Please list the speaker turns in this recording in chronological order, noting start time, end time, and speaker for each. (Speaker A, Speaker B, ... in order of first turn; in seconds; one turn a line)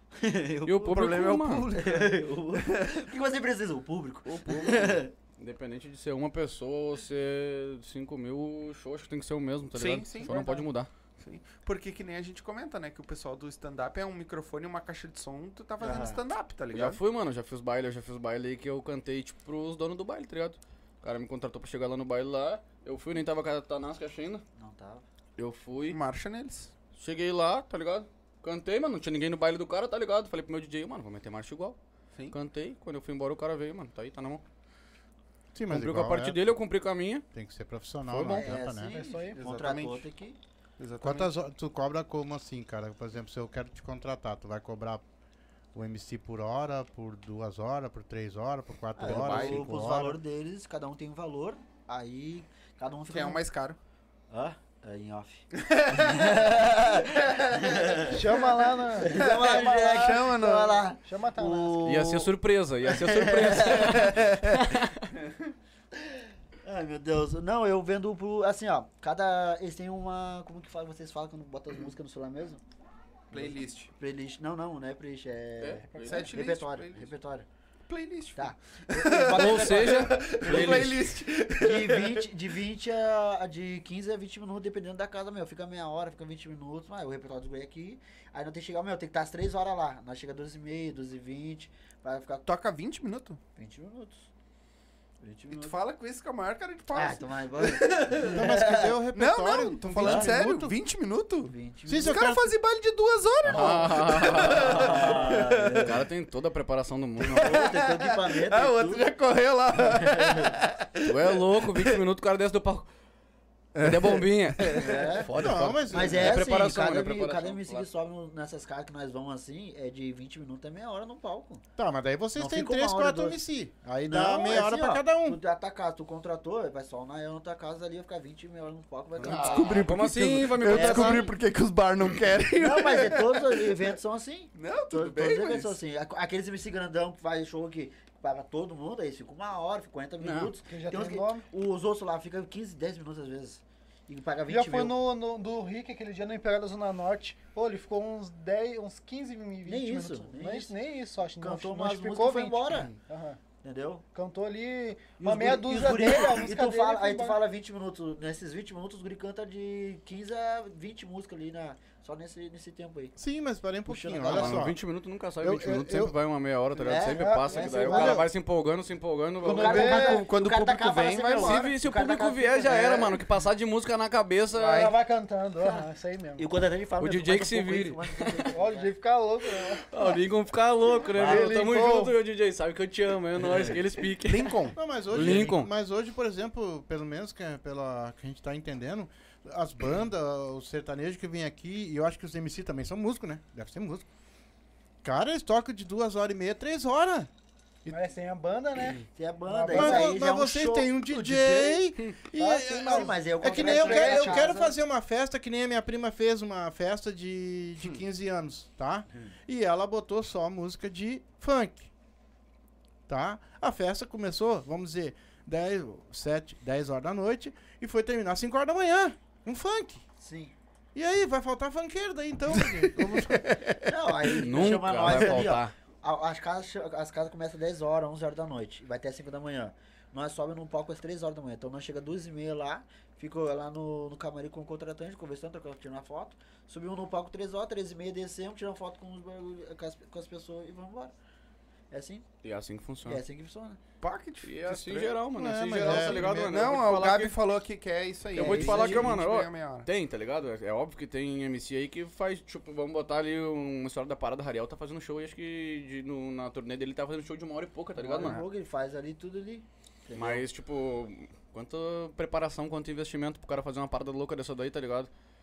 Speaker A: 0.2-1.1
Speaker B: 0.7-1.7
Speaker C: 0.8-2.9
Speaker A: 1.7-5.1
Speaker B: 4.3-10.9
Speaker C: 9.7-10.7
Speaker C: 11.2-17.0
Speaker A: 15.8-16.2
Speaker B: 16.7-24.4
Speaker A: 24.6-25.1
Speaker B: 25.4-26.0
Speaker C: 25.9-26.7
Speaker B: 26.9-31.8
Speaker B: 32.3-34.4
Speaker D: 35.5-36.4
Speaker B: 35.7-37.2
Speaker D: 37.3-39.0
Speaker E: 38.3-39.4
Speaker A: 38.3-40.4
Speaker C: 39.4-40.1
Speaker C: 40.8-41.3
Speaker D: 41.0-45.0
Speaker D: 45.7-50.2
Speaker A: 49.0-53.4
Speaker C: 49.0-49.7
Speaker C: 53.1-53.8
Speaker A: 54.3-62.3
Speaker C: 55.5-57.8
Speaker E: 58.1-60.2
Speaker C: 59.1-60.8
Speaker E: 61.0-61.9
Speaker B: 61.9-65.1
Speaker A: 62.9-64.3
Speaker C: 64.0-64.5
Speaker A: 66.1-72.6
Speaker C: 73.3-73.9
Speaker A: 73.3-77.5
Speaker B: 75.6-76.3
Speaker C: 76.0-77.1
Speaker C: 77.9-82.3
Speaker A: 78.4-92.5
Speaker B: 79.3-81.0
Speaker C: 92.5-93.4
Speaker A: 93.6-94.3
Speaker A: 95.2-95.8
Speaker C: 95.5-98.5
Speaker A: 96.9-99.0
Speaker D: 98.2-100.8
Speaker C: 99.1-101.5
Speaker A: 100.0-100.3
Speaker A: 101.5-102.2
Speaker D: 101.9-102.5
Speaker C: 102.0-105.9
Speaker B: 103.4-107.7
Speaker A: 104.5-106.0
Speaker A: 107.3-109.1
Speaker C: 107.3-112.0
Speaker A: 109.8-110.5
Speaker B: 111.0-112.9
Speaker C: 113.7-115.1
Speaker B: 113.8-117.9
Speaker A: 114.8-115.3
Speaker D: 115.4-116.4
Speaker A: 115.9-121.6
Speaker D: 121.8-125.4
Speaker A: 122.3-123.4
Speaker A: 124.0-129.9
Speaker C: 129.2-133.9
Speaker B: 129.2-131.3
Speaker A: 130.7-131.3
Speaker A: 132.6-145.0
Speaker C: 134.5-135.8
Speaker B: 140.2-140.5
Speaker E: 140.7-141.5
Speaker E: 144.5-153.4
Speaker A: 149.7-150.8
Speaker A: 151.4-152.9
Speaker A: 153.6-154.0
Speaker E: 154.1-157.4
Speaker A: 155.2-163.2
Speaker D: 163.2-164.8
Speaker A: 163.9-164.7
Speaker B: 164.3-169.9
Speaker D: 165.4-166.2
Speaker A: 166.8-168.3
Speaker E: 167.2-168.1
Speaker D: 167.9-168.3
Speaker A: 169.4-173.2
Speaker E: 169.4-170.2
Speaker C: 169.6-171.7
Speaker B: 171.4-174.9
Speaker C: 174.5-174.9
Speaker E: 174.6-176.5
Speaker A: 176.4-178.9
Speaker B: 177.0-178.5
Speaker E: 178.5-180.2
Speaker B: 179.9-185.7
Speaker E: 181.1-182.2
Speaker A: 181.2-181.6
Speaker C: 184.2-184.8
Speaker D: 184.8-194.1
Speaker D: 195.0-197.3
Speaker E: 197.9-200.2
Speaker A: 199.1-200.9
Speaker D: 199.7-211.9
Speaker C: 201.1-201.8
Speaker E: 202.3-204.6
Speaker A: 202.8-204.8
Speaker D: 213.1-220.0
Speaker A: 220.2-220.5
Speaker D: 220.9-223.5
Speaker C: 222.5-223.8
Speaker A: 223.8-241.1
Speaker B: 224.3-225.7
Speaker A: 241.9-242.3
Speaker B: 242.4-243.2
Speaker A: 243.1-243.8
Speaker C: 244.0-245.2
Speaker B: 244.4-247.3
Speaker D: 245.3-246.6
Speaker C: 245.8-249.9
Speaker A: 248.3-249.1
Speaker B: 248.3-258.4
Speaker A: 258.0-260.5
Speaker B: 260.1-265.1